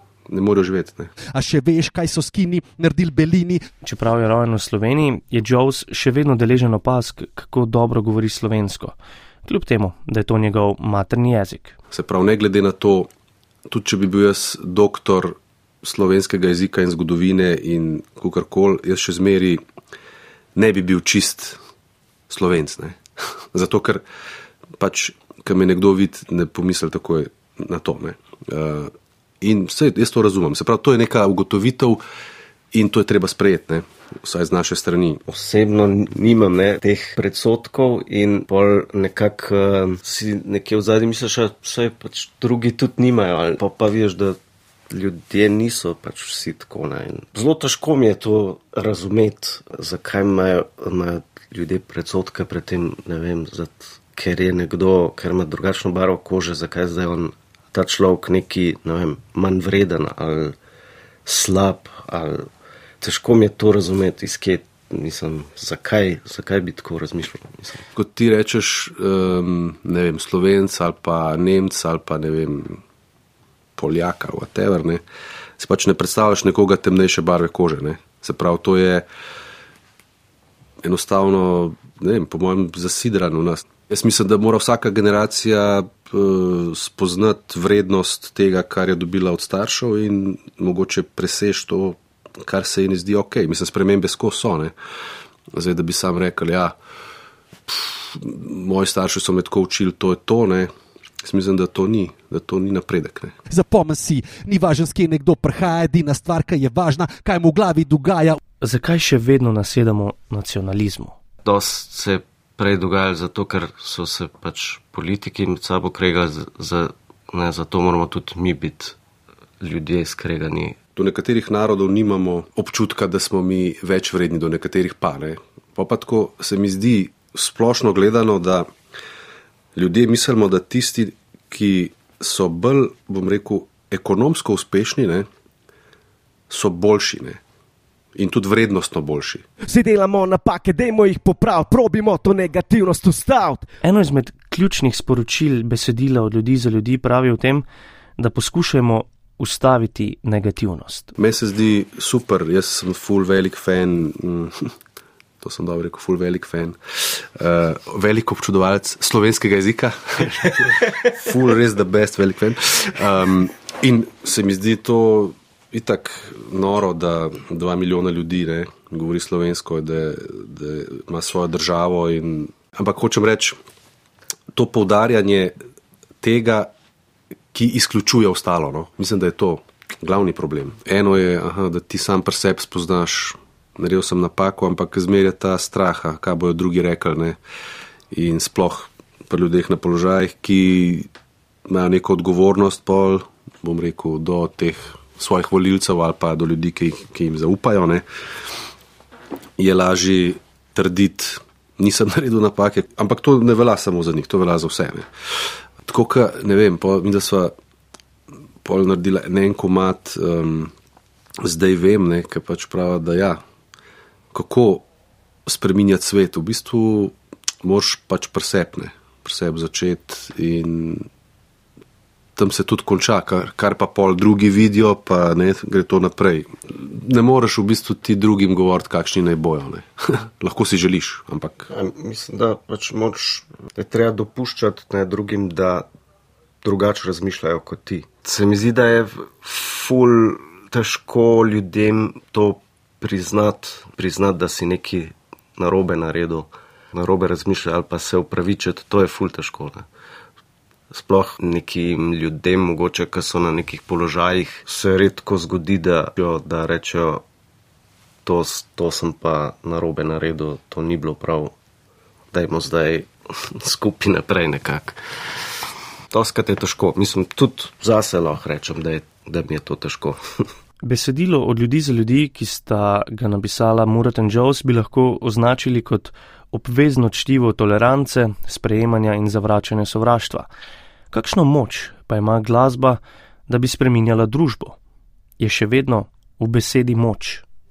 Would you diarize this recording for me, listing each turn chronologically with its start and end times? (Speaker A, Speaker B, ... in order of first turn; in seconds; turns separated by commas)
Speaker A: 0.3-1.1, Speaker B: 1.3-3.6, Speaker C: 3.8-11.8, Speaker A: 11.9-13.1, Speaker A: 13.7-19.6, Speaker A: 20.6-21.6, Speaker A: 22.3-23.0, Speaker A: 23.5-24.0, Speaker A: 24.8-32.0, Speaker A: 32.7-35.2, Speaker D: 35.3-44.4, Speaker D: 44.9-60.5, Speaker D: 61.2-62.5, Speaker D: 63.0-67.8, Speaker A: 67.9-72.8, Speaker A: 73.8-75.0, Speaker A: 75.6-79.0, Speaker A: 80.8-94.7, Speaker A: 95.5-96.7, Speaker A: 97.7-100.7, Speaker A: 101.2-103.3, Speaker B: 103.5-108.4, Speaker C: 108.6-111.1, Speaker D: 111.4-119.0, Speaker D: 119.6-120.8, Speaker A: 121.0-128.7, Speaker A: 129.8-135.3, Speaker A: 136.5-137.4, Speaker A: 138.2-139.4, Speaker E: 139.7-143.6, Speaker C: 143.8-147.6, Speaker C: 148.2-151.1, Speaker A: 151.2-154.7, Speaker A: 155.4-173.6, Speaker A: 174.5-175.6, Speaker A: 176.2-176.7, Speaker A: 177.5-187.4, Speaker A: 188.1-191.1, Speaker A: 191.7-198.0, Speaker A: 199.6-205.1, Speaker A: 205.8-207.5, Speaker A: 208.6-210.7, Speaker A: 211.4-213.4, Speaker A: 214.3-214.8, Speaker A: 215.5-221.1, Speaker A: 222.3-231.7, Speaker D: 231.7-235.8, Speaker D: 236.6-249.8, Speaker D: 250.9-257.2, Speaker D: 258.2-261.5, Speaker D: 262.3-265.0, Speaker D: 266.1-270.2, Speaker C: 270.8-280.5, Speaker C: 281.1-284.8, Speaker C: 285.4-287.4